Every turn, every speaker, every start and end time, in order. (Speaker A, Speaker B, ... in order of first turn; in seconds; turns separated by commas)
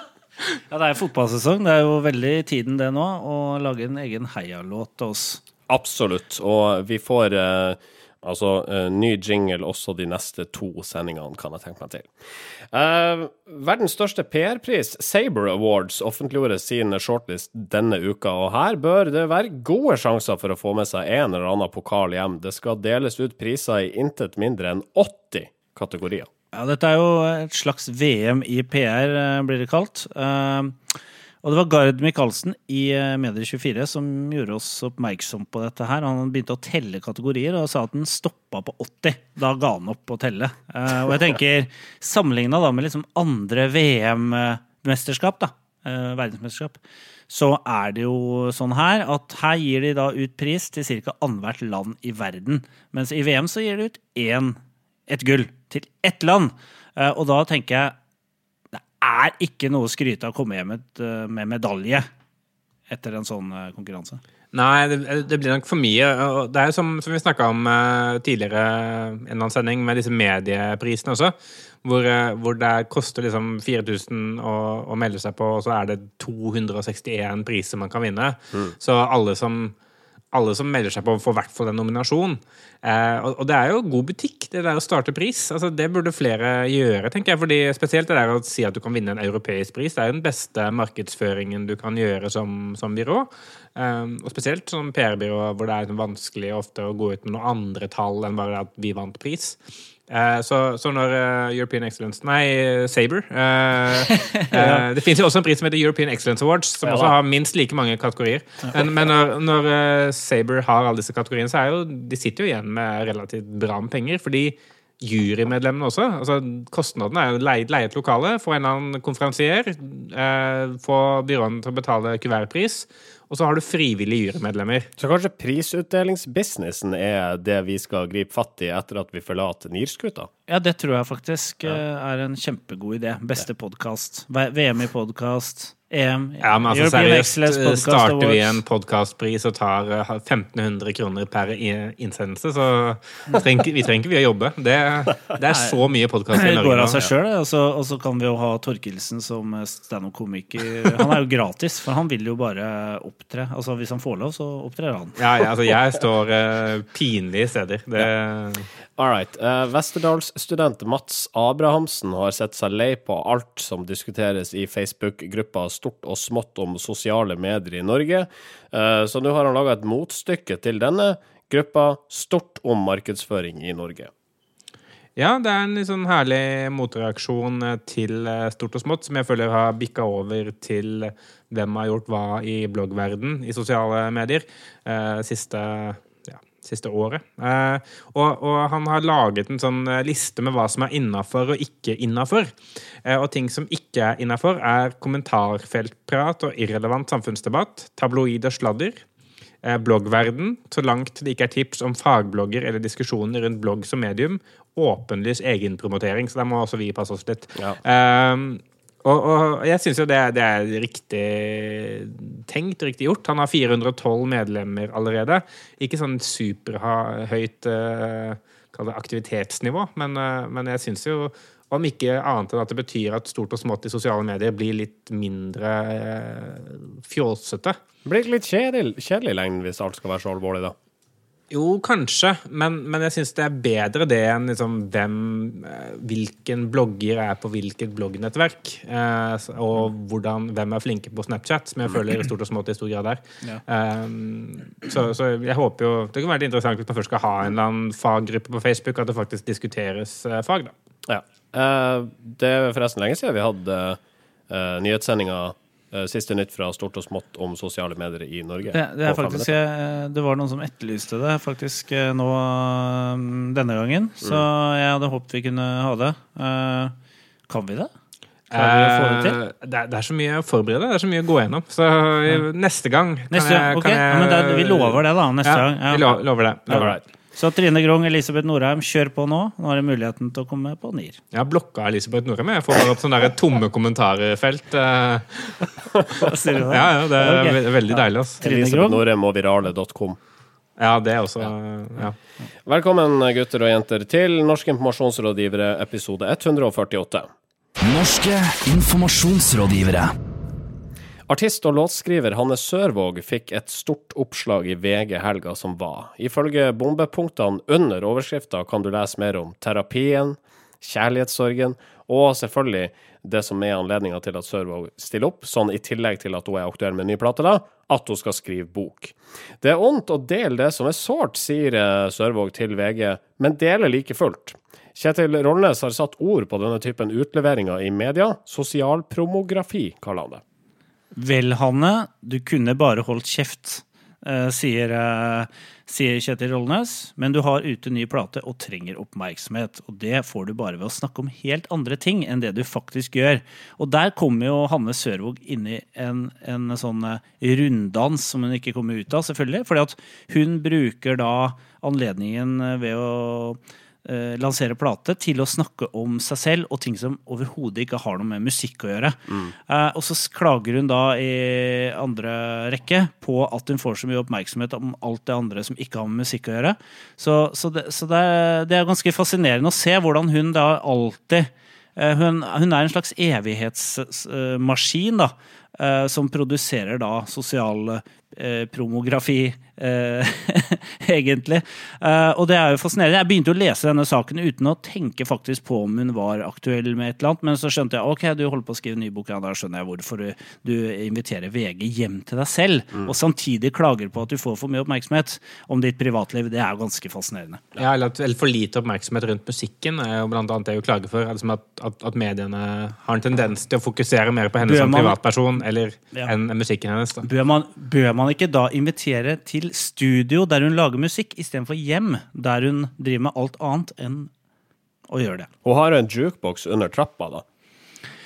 Speaker A: 0.7-5.4, Speaker B: 5.7-12.1, Speaker B: 12.7-26.3, Speaker A: 26.5-30.8, Speaker A: 31.4-46.8, Speaker A: 47.3-58.0, Speaker A: 58.7-62.1, Speaker A: 62.9-64.2, Speaker C: 64.5-79.8, Speaker C: 80.3-99.6, Speaker C: 100.1-124.9, Speaker A: 104.1-104.8, Speaker B: 106.8-107.2, Speaker B: 125.0-130.3, Speaker A: 130.5-138.6, Speaker C: 136.4-147.1, Speaker A: 145.5-145.8, Speaker A: 146.3-155.2, Speaker C: 155.2-158.7, Speaker B: 159.0-174.1, Speaker C: 175.2-199.0, Speaker C: 199.6-227.8, Speaker B: 228.1-230.8, Speaker C: 231.5-250.7, Speaker B: 251.1-259.5, Speaker A: 258.7-266.9, Speaker A: 267.5-267.9, Speaker C: 268.5-277.0, Speaker A: 268.5-269.4, Speaker A: 273.3-281.2, Speaker C: 281.3-288.4, Speaker A: 286.2-289.0, Speaker B: 288.4-290.2, Speaker C: 290.8-292.2, Speaker B: 292.6-297.3, Speaker D: 297.8-300.1, Speaker B: 301.3-330.4, Speaker A: 331.2-397.6, Speaker C: 397.8-407.2, Speaker A: 404.6-405.2, Speaker A: 407.2-414.3, Speaker A: 415.1-415.5, Speaker B: 415.6-417.4